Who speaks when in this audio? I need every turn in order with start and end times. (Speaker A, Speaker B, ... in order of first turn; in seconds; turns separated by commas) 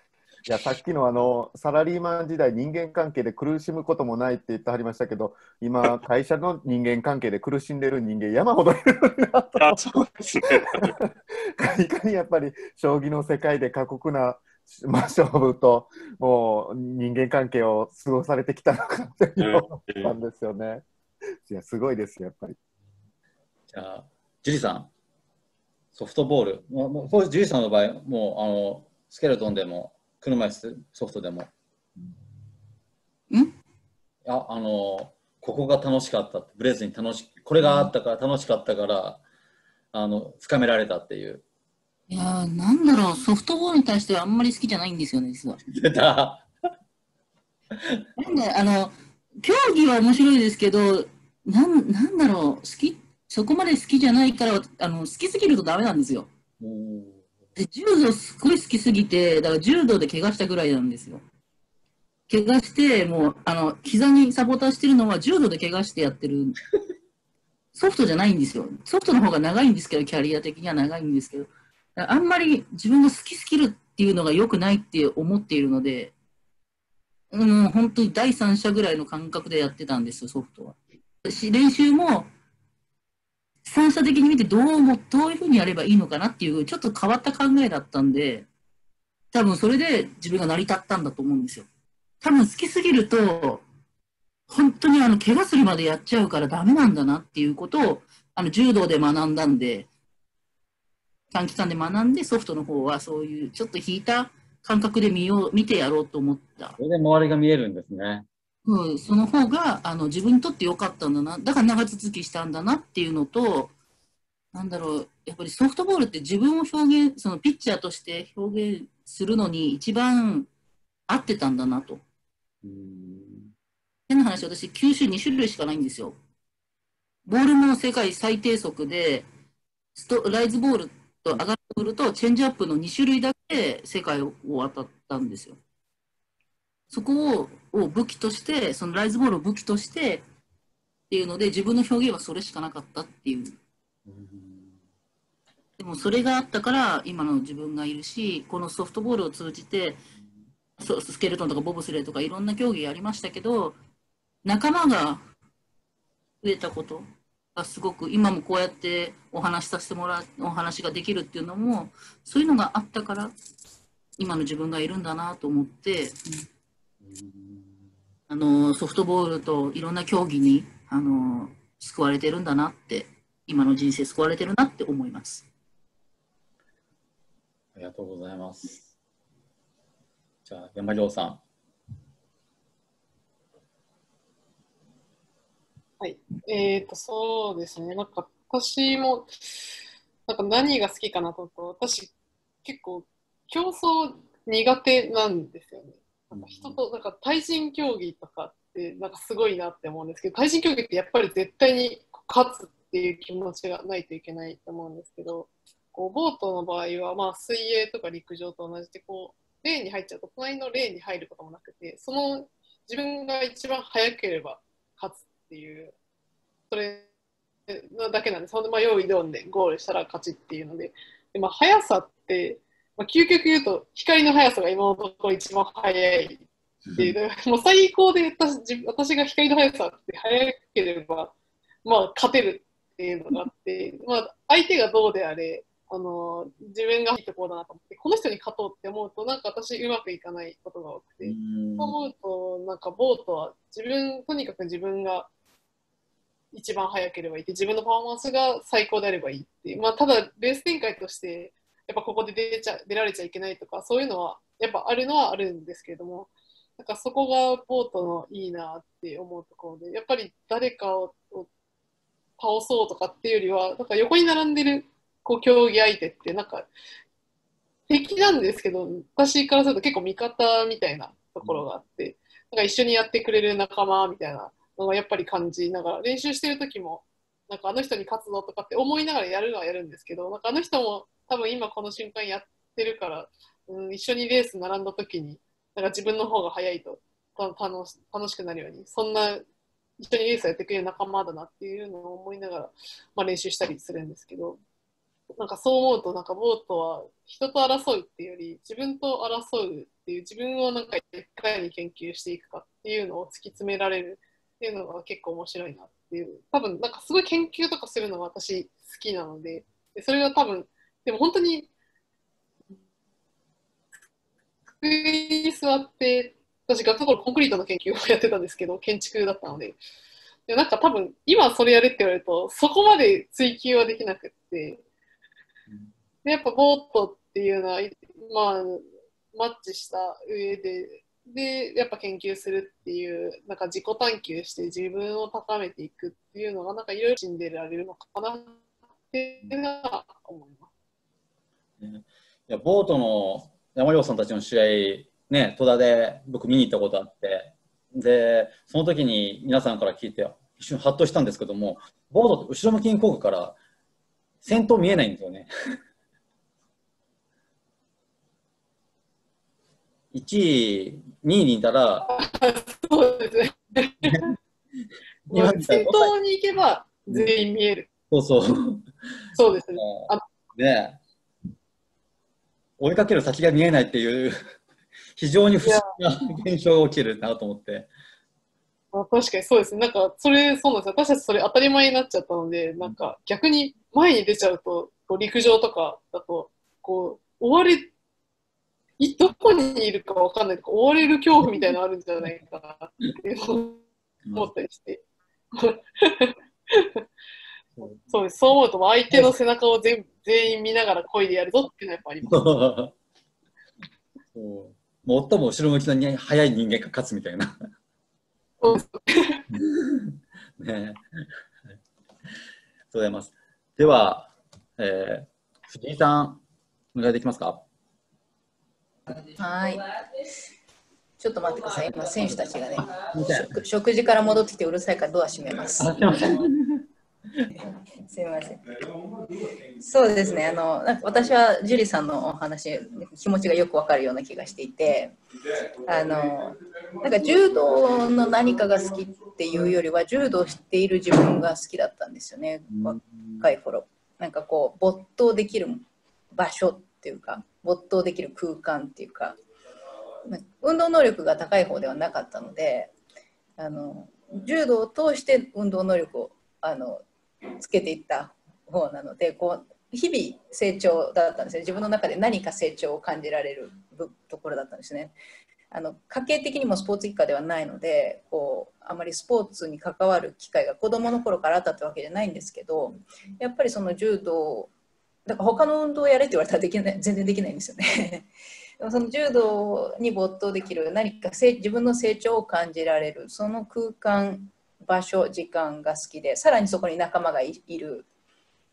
Speaker A: 0.5-9.8, Speaker B: 9.6-10.9, Speaker A: 11.0-20.8, Speaker B: 19.4-20.1, Speaker A: 21.5-22.6, Speaker C: 23.7-24.9, Speaker C: 25.9-31.5, Speaker C: 34.2-39.2, Speaker D: 37.6-37.9, Speaker C: 39.9-41.4, Speaker D: 42.1-45.6, Speaker C: 45.7-46.4, Speaker C: 47.8-48.0, Speaker D: 48.2-56.3, Speaker C: 56.6-57.2, Speaker D: 57.6-61.2, Speaker D: 62.3-66.6, Speaker D: 67.7-76.1, Speaker D: 77.3-82.3, Speaker D: 83.7-88.5, Speaker D: 89.3-91.7, Speaker D: 92.2-93.6, Speaker D: 94.5-99.9, Speaker D: 101.3-106.8, Speaker C: 106.8-108.2, Speaker D: 108.6-113.7, Speaker D: 114.5-120.5, Speaker D: 121.1-122.0, Speaker C: 122.6-123.5, Speaker D: 124.1-126.2, Speaker D: 127.2-129.2, Speaker D: 129.9-135.6, Speaker D: 136.9-140.2, Speaker D: 141.1-143.6, Speaker C: 144.1-144.8, Speaker D: 145.8-150.0, Speaker D: 150.8-153.8, Speaker D: 154.4-155.2, Speaker D: 156.4-163.3, Speaker D: 164.2-166.4, Speaker C: 167.0-167.7, Speaker D: 168.3-175.5, Speaker C: 177.7-178.9, Speaker C: 180.4-181.4, Speaker E: 186.0-189.7, Speaker E: 190.3-192.1, Speaker E: 192.6-215.9, Speaker C: 196.3-196.8, Speaker E: 216.7-217.1, Speaker E: 217.7-231.3, Speaker E: 231.8-245.3, Speaker C: 241.2-241.9, Speaker E: 246.5-261.5, Speaker E: 262.4-266.7, Speaker E: 267.9-289.4, Speaker E: 290.0-294.6, Speaker E: 295.4-311.7, Speaker E: 314.8-319.8, Speaker E: 320.5-324.8, Speaker E: 326.2-338.6, Speaker E: 339.1-340.7, Speaker C: 341.8-353.6, Speaker C: 354.4-355.5, Speaker C: 360.1-362.1, Speaker E: 362.1-364.3, Speaker E: 365.3-367.9, Speaker C: 365.3-366.1, Speaker C: 368.1-368.9, Speaker E: 369.3-370.2, Speaker C: 369.8-371.0, Speaker C: 372.8-374.3, Speaker C: 375.1-377.9, Speaker E: 378.9-387.9, Speaker E: 389.0-393.8, Speaker C: 394.2-394.5, Speaker E: 394.3-395.0, Speaker E: 395.5-397.0, Speaker C: 397.8-398.0, Speaker E: 398.1-402.5, Speaker C: 402.2-402.9, Speaker C: 404.3-407.6, Speaker E: 408.6-409.4, Speaker C: 409.7-411.0, Speaker C: 412.9-416.4, Speaker C: 416.9-417.6, Speaker F: 419.4-419.8, Speaker F: 421.2-426.1, Speaker C: 423.0-423.5, Speaker C: 425.8-426.9, Speaker F: 427.6-428.6, Speaker F: 429.8-435.2, Speaker F: 435.9-449.4, Speaker C: 442.7-443.4, Speaker F: 450.3-452.9, Speaker F: 453.6-457.0, Speaker F: 457.6-465.1, Speaker F: 465.7-474.7, Speaker F: 475.2-478.3, Speaker F: 478.8-488.1